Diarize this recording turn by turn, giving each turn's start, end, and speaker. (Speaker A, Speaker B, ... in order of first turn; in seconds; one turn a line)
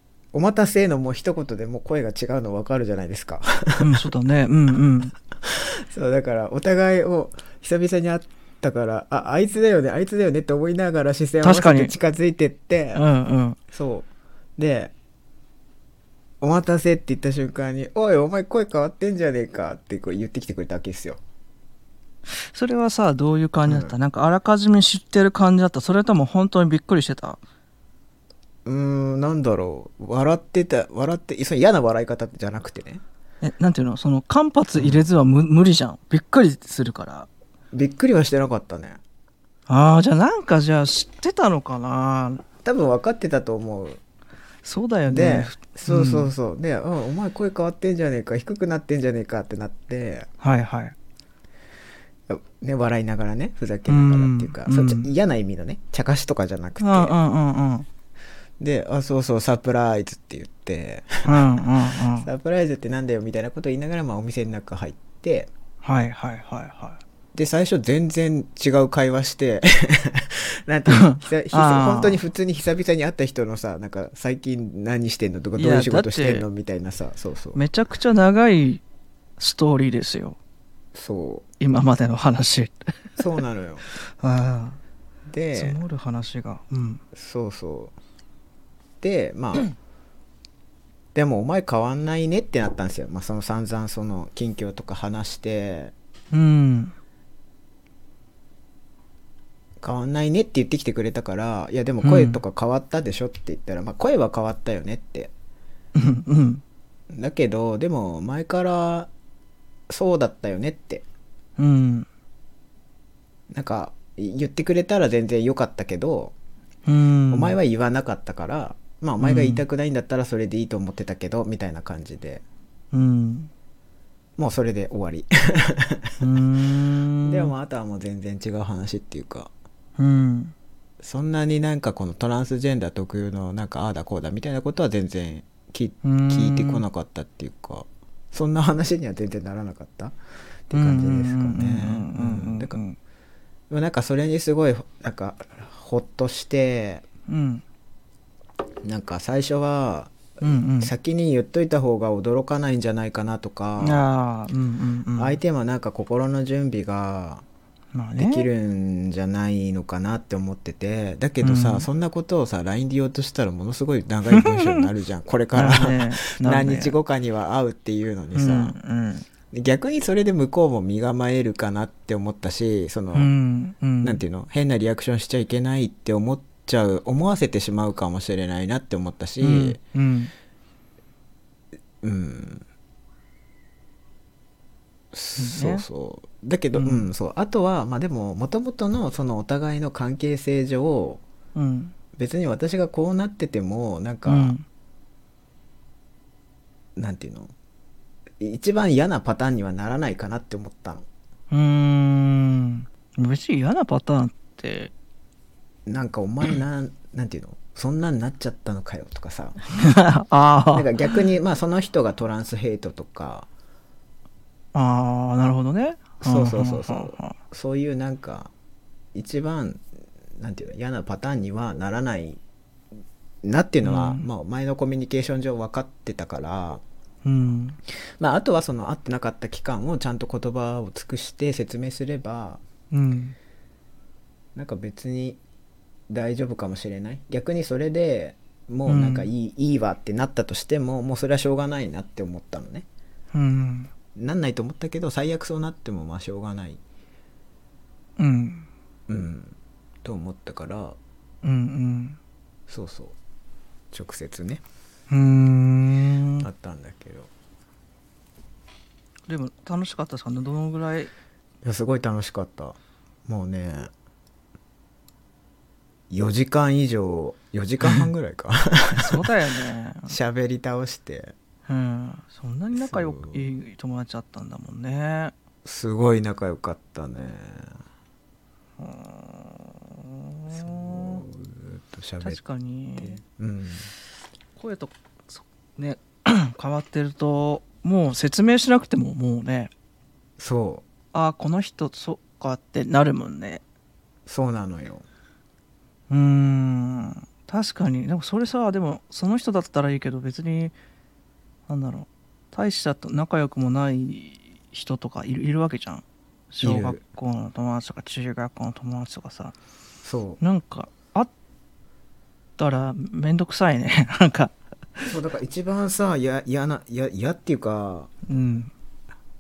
Speaker A: 0.3-4.1
Speaker B: 3.8-5.1
Speaker A: 5.4-13.0
Speaker B: 11.4-11.9
Speaker B: 12.9-13.6
Speaker A: 13.7-14.9
Speaker A: 16.4-21.2
Speaker B: 22.3-27.4
Speaker A: 23.7-23.9
Speaker A: 28.6-33.0
Speaker B: 33.4-37.3
Speaker A: 34.8-35.0
Speaker A: 37.7-39.0
Speaker B: 39.7-42.4
Speaker A: 42.6-44.0
Speaker B: 44.6-46.3
Speaker A: 45.1-50.3
Speaker B: 50.4-50.9
Speaker A: 52.3-57.1
Speaker B: 53.9-55.1
Speaker B: 56.8-57.9
Speaker A: 58.6-61.6
Speaker B: 61.2-62.3
Speaker A: 62.2-65.5
Speaker B: 65.8-67.0
Speaker A: 67.3-77.6
Speaker B: 70.9-72.2
Speaker B: 75.6-76.5
Speaker B: 77.5-78.8
Speaker B: 79.4-80.4
Speaker A: 80.9-81.5
Speaker B: 81.6-83.2
Speaker A: 83.2-83.8
Speaker B: 84.0-84.8
Speaker A: 85.3-85.8
Speaker B: 85.5-87.0
Speaker A: 87.1-87.9
Speaker A: 89.0-89.7
Speaker A: 91.1-95.9
Speaker B: 96.3-96.9
Speaker A: 99.8-105.3
Speaker B: 102.0-102.4
Speaker B: 105.9-106.6
Speaker A: 107.1-109.1
Speaker A: 109.9-111.0
Speaker B: 111.6-112.1
Speaker A: 113.5-116.3
Speaker B: 116.8-117.5
Speaker A: 117.3-122.4
Speaker B: 119.2-119.6
Speaker B: 122.9-123.5
Speaker A: 124.4-126.3
Speaker B: 126.2-127.5
Speaker A: 127.2-129.5
Speaker B: 130.0-130.5
Speaker A: 131.0-140.2
Speaker B: 136.0-136.8
Speaker A: 140.7-142.8
Speaker B: 140.7-143.0
Speaker A: 143.7-147.0
Speaker B: 147.3-147.6
Speaker A: 148.8-154.0
Speaker B: 150.4-150.9
Speaker B: 153.8-155.4
Speaker A: 155.2-157.4
Speaker B: 157.9-158.5
Speaker A: 158.2-168.7
Speaker B: 161.4-161.9
Speaker B: 164.3-164.9
Speaker B: 165.5-166.9
Speaker B: 168.3-169.3
Speaker A: 169.5-173.3
Speaker B: 173.1-174.2
Speaker A: 174.0-179.8
Speaker B: 179.4-180.3
Speaker A: 182.0-182.7
Speaker A: 185.1-191.2
Speaker B: 185.4-185.8
Speaker B: 186.7-187.1
Speaker B: 191.5-191.9
Speaker A: 192.1-194.5
Speaker B: 194.2-194.6
Speaker A: 196.9-197.5
Speaker A: 198.4-201.1
Speaker B: 201.5-204.9
Speaker A: 205.8-209.7
Speaker B: 209.8-211.1
Speaker A: 210.7-213.5
Speaker B: 214.7-217.3
Speaker A: 216.2-218.5
Speaker A: 219.1-219.8
Speaker A: 220.4-222.4
Speaker A: 223.4-226.8
Speaker B: 223.8-224.2
Speaker B: 227.2-227.8
Speaker A: 228.2-232.6
Speaker B: 232.9-233.3
Speaker A: 234.5-235.4
Speaker A: 236.1-242.8
Speaker B: 238.9-239.3
Speaker B: 243.3-243.9
Speaker A: 244.1-246.8
Speaker B: 248.2-248.7
Speaker A: 249.1-251.0
Speaker B: 251.4-252.2
Speaker A: 252.7-253.2
Speaker A: 253.9-254.6
Speaker B: 255.1-256.5
Speaker A: 256.4-257.3
Speaker B: 259.3-261.1
Speaker A: 261.6-263.9
Speaker A: 266.1-269.3
Speaker B: 267.8-268.1
Speaker B: 268.9-270.1
Speaker A: 270.1-271.3
Speaker B: 271.7-275.3
Speaker A: 272.7-273.4
Speaker A: 275.6-277.8
Speaker B: 278.8-281.2
Speaker A: 280.5-282.4
Speaker B: 282.2-283.2
Speaker A: 283.0-283.9
Speaker B: 284.6-289.7
Speaker A: 290.4-290.9
Speaker B: 291.1-293.6
Speaker A: 294.3-295.0
Speaker B: 296.1-300.7
Speaker B: 301.7-309.5
Speaker A: 306.6-307.0
Speaker A: 310.0-310.4
Speaker B: 310.4-311.3
Speaker B: 312.6-315.1
Speaker A: 315.1-318.1
Speaker B: 318.3-318.7